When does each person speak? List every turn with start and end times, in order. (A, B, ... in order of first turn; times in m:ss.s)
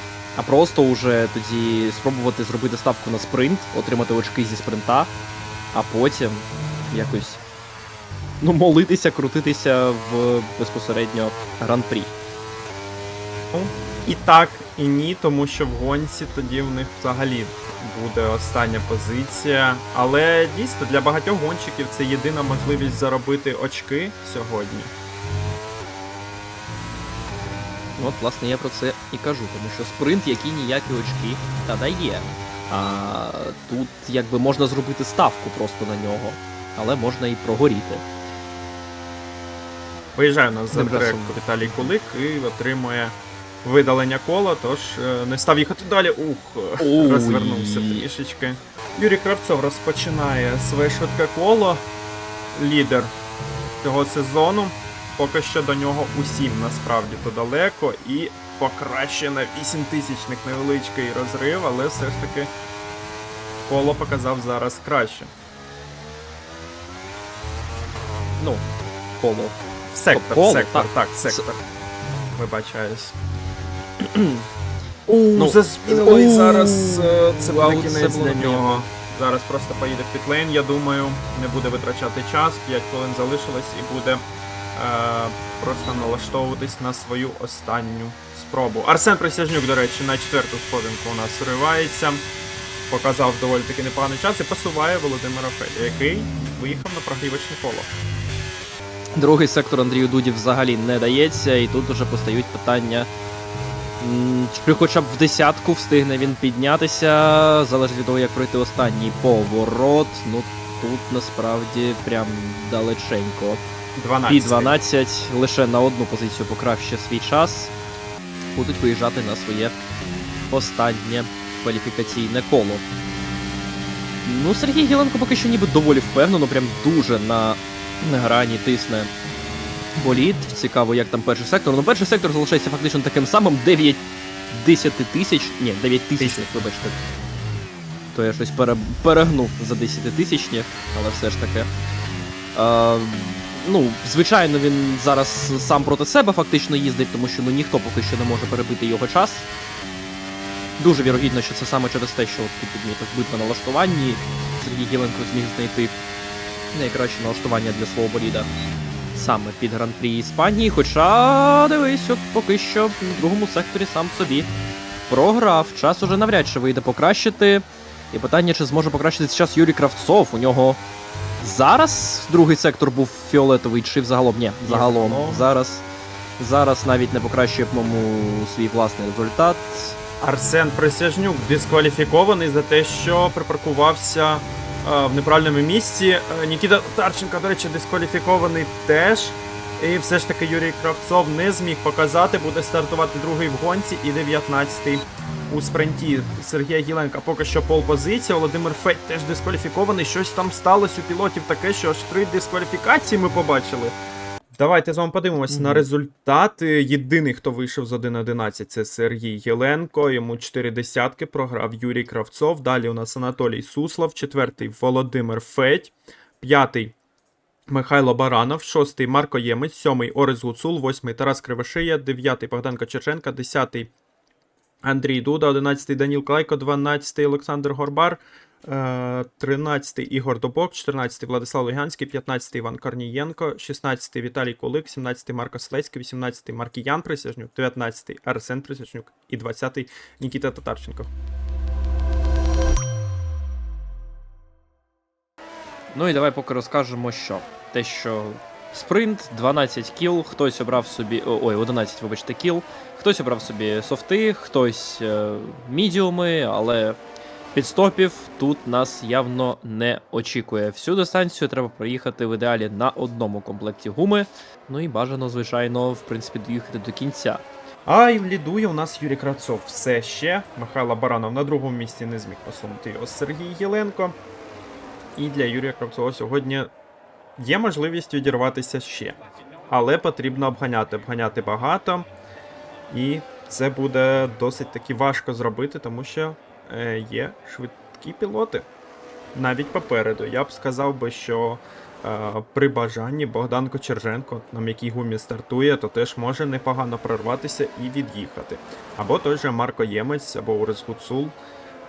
0:00.3-0:05.1 A
0:05.7-0:07.4 A
0:08.4-0:12.1 A
0:13.5-0:24.9 B
0:28.0-0:38.0 A
0:40.1-0:51.8 B
0:40.7-0:41.9 A
0:46.8-0:48.1 A
0:52.5-0:53.1 B
0:53.8-1:02.5 B
1:03.7-1:05.3 B
1:09.2-1:09.6 A
1:09.9-1:11.6 B
1:10.1-1:11.4 A
1:12.4-1:13.2 B
1:14.0-1:14.4 A
1:15.1-1:24.2 B
1:15.3-1:18.9 A
1:24.7-1:32.2 B
1:32.9-1:37.9 B
1:39.2-1:43.1 A
1:44.0-1:53.6 A
1:54.0-1:54.8 B
1:54.3-1:57.7 A
1:58.5-1:59.8 A
2:00.5-2:02.8 A
2:04.2-2:09.1 A
2:10.0-2:17.0 A
2:16.2-2:16.5 B
2:18.1-2:21.7 A
2:22.5-2:29.5 A
2:30.8-2:36.0 A
2:36.7-2:38.5 A
2:39.1-2:44.5 A
2:45.1-2:50.8 A
2:51.4-2:55.8 A
2:54.6-2:55.4 B
2:56.4-3:00.0 A
3:00.2-3:24.0 B
3:24.6-3:36.9 B
3:25.5-3:25.8 A
3:37.7-3:43.9 B
3:44.8-4:01.1 B
4:05.9-4:17.0 A
4:17.5-4:27.4 A
4:27.8-4:34.2 B
4:35.2-4:36.7 B
4:37.4-4:39.2 B
4:39.7-4:42.1 B
4:42.9-4:48.7 B
4:49.3-5:01.4 B